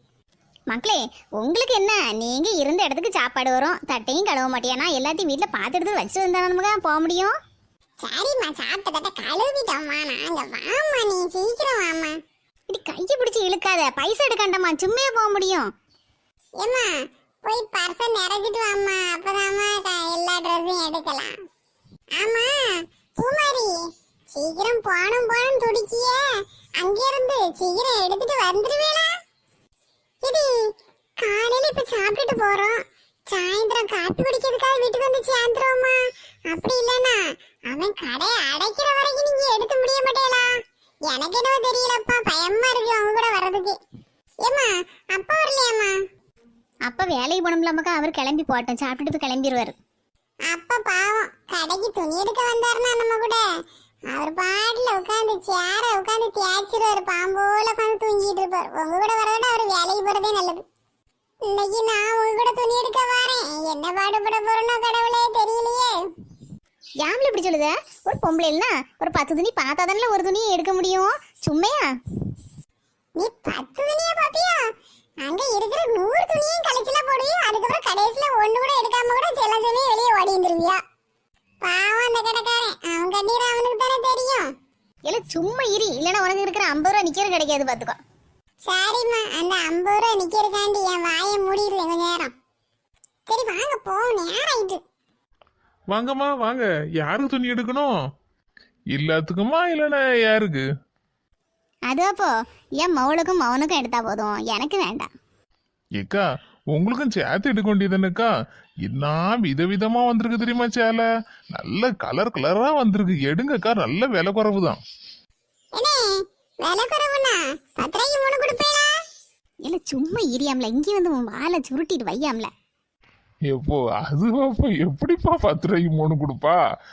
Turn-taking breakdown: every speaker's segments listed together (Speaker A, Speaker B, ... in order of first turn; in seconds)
Speaker A: 0.7-7.3, 12.7-15.7, 46.9-49.8, 67.0-71.9, 85.1-88.0, 101.9-102.3, 102.8-105.1, 119.7-122.5
Speaker B: 8.0-12.2, 16.6-16.9, 17.4-21.3, 22.2-23.7, 24.3-26.2, 26.8-29.1, 30.2-30.5, 31.2-32.7, 33.3-36.0, 36.5-40.5, 41.1-43.8, 44.4-45.9, 50.5-53.4, 54.1-60.6, 61.5-65.9, 73.2-74.6, 75.2-80.8, 81.6-84.5, 88.6-92.3, 93.3-94.8, 116.6-118.9
Speaker C: 95.9-97.9, 98.9-100.6, 106.0-108.3, 108.9-114.8, 123.5-126.6